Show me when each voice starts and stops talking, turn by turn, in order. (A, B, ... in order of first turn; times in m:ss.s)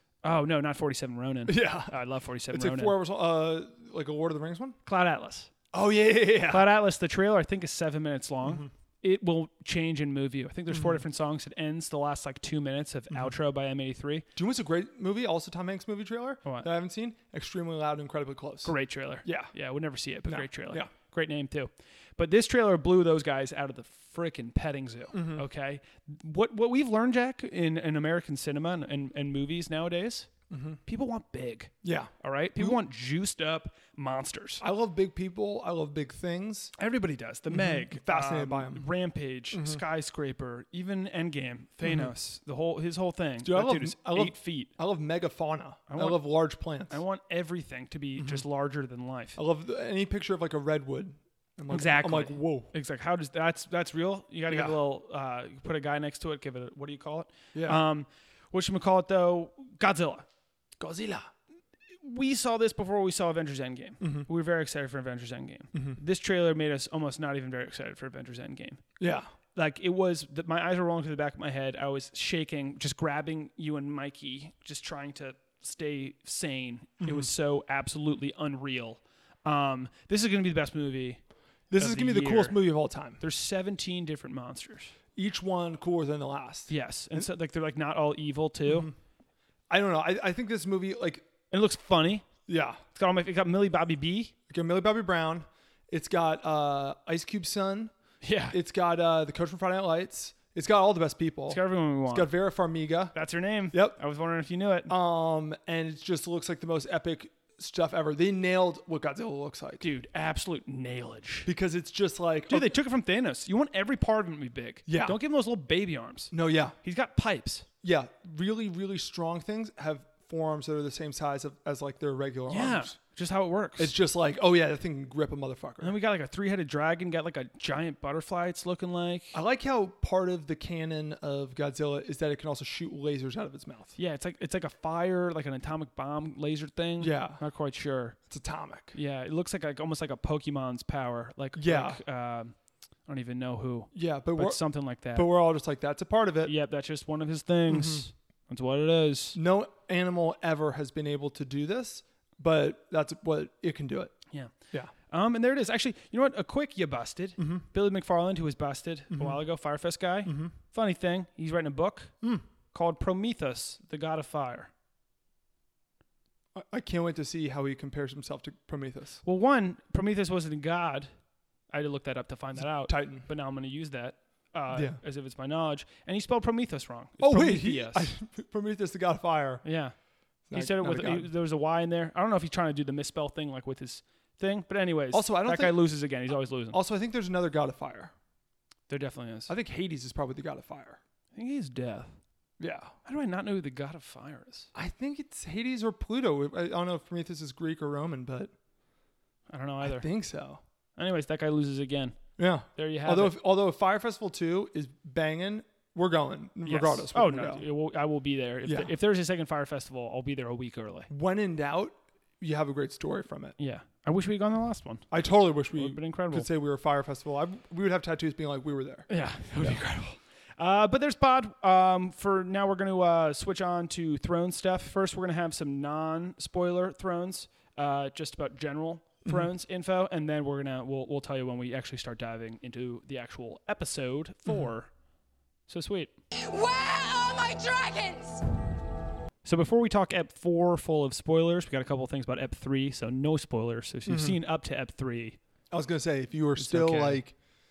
0:00.2-0:03.0 A
0:01.4-0:01.9 B
0:02.5-0:04.8 B
0:04.8-0:05.5 A
0:05.7-0:06.7 B
0:06.5-0:14.2 A
0:08.4-0:08.7 B
0:10.7-0:11.0 B
0:14.3-0:19.5 B
0:18.6-0:30.3 A
0:20.2-0:20.9 B
0:25.1-0:25.4 B
0:30.5-0:30.8 B
0:30.8-0:34.6 A
0:31.8-0:32.8 B
0:34.6-0:36.7 B
0:36.8-0:44.7 A
0:37.5-0:38.9 B
0:39.5-0:39.8 B
0:41.8-0:42.1 B
0:43.4-0:47.0 B
0:45.9-0:46.2 A
0:46.9-0:49.4 A
0:48.2-0:48.4 B
0:49.4-0:52.7 B
0:51.7-1:00.2 A
0:54.5-0:54.8 B
0:57.5-0:57.8 B
1:00.8-1:01.3 B
1:02.0-1:08.8 A
1:04.0-1:04.3 B
1:05.7-1:06.0 B
1:09.0-1:09.3 B
1:09.5-1:21.2 A
1:17.0-1:17.3 B
1:21.7-1:23.2 B
1:21.8-1:22.6 A
1:23.2-1:24.9 A
1:25.1-1:27.3 B
1:26.7-1:28.9 A
1:28.6-1:28.9 B
1:29.7-1:31.2 B
1:31.5-1:32.3 A
1:32.5-1:32.8 B
1:32.9-1:34.3 A
1:34.5-1:37.9 B
1:38.2-1:38.6 A
1:38.5-1:43.1 B
1:41.5-1:42.3 A
1:43.1-1:44.9 A
1:43.7-1:44.0 B
1:44.9-1:49.9 B
1:49.8-1:51.5 A
1:51.4-1:52.7 B
1:52.5-1:57.6 A
1:54.9-1:55.2 B
1:56.3-1:56.7 B
1:57.8-2:03.0 B
2:02.5-2:03.9 A
2:03.8-2:06.0 B
2:05.8-2:09.4 A
2:09.3-2:13.9 B
2:14.0-2:18.2 A
2:17.0-2:17.4 B
2:18.3-2:19.0 B
2:18.9-2:25.3 A
2:21.6-2:22.0 B
2:23.9-2:26.5 B
2:26.4-2:29.4 A
2:27.7-2:28.1 B
2:29.3-2:34.2 B
2:34.3-2:42.2 A
2:37.4-2:37.6 B
2:39.1-2:39.4 B
2:40.2-2:40.5 B
2:42.7-2:44.7 A
2:46.5-2:49.2 B
2:49.2-2:51.1 A
2:51.7-2:58.1 A
2:52.6-2:53.3 B
2:54.7-2:55.0 B
2:57.2-2:59.6 B
2:59.6-2:59.9 A
3:00.5-3:01.3 B
3:00.5-3:06.8 A
3:05.1-3:06.0 B
3:06.7-3:08.1 B
3:08.9-3:09.5 A
3:09.5-3:11.0 B
3:11.3-3:12.1 A
3:12.6-3:12.9 B
3:13.0-3:14.7 A
3:14.7-3:18.5 B
3:19.5-3:20.0 A
3:19.8-3:20.6 B
3:21.0-3:22.2 A
3:22.4-3:27.6 B
3:22.7-3:23.4 A
3:26.6-3:31.1 A
3:28.6-3:28.9 B
3:31.1-3:33.5 B
3:33.6-3:35.1 A
3:35.1-3:40.1 B
3:35.7-3:36.5 A
3:39.1-3:54.9 A
3:55.7-3:56.1 A
3:56.4-3:58.4 C
3:59.4-4:05.4 A
4:04.0-4:04.4 B
4:05.7-4:07.3 B
4:06.6-4:07.2 A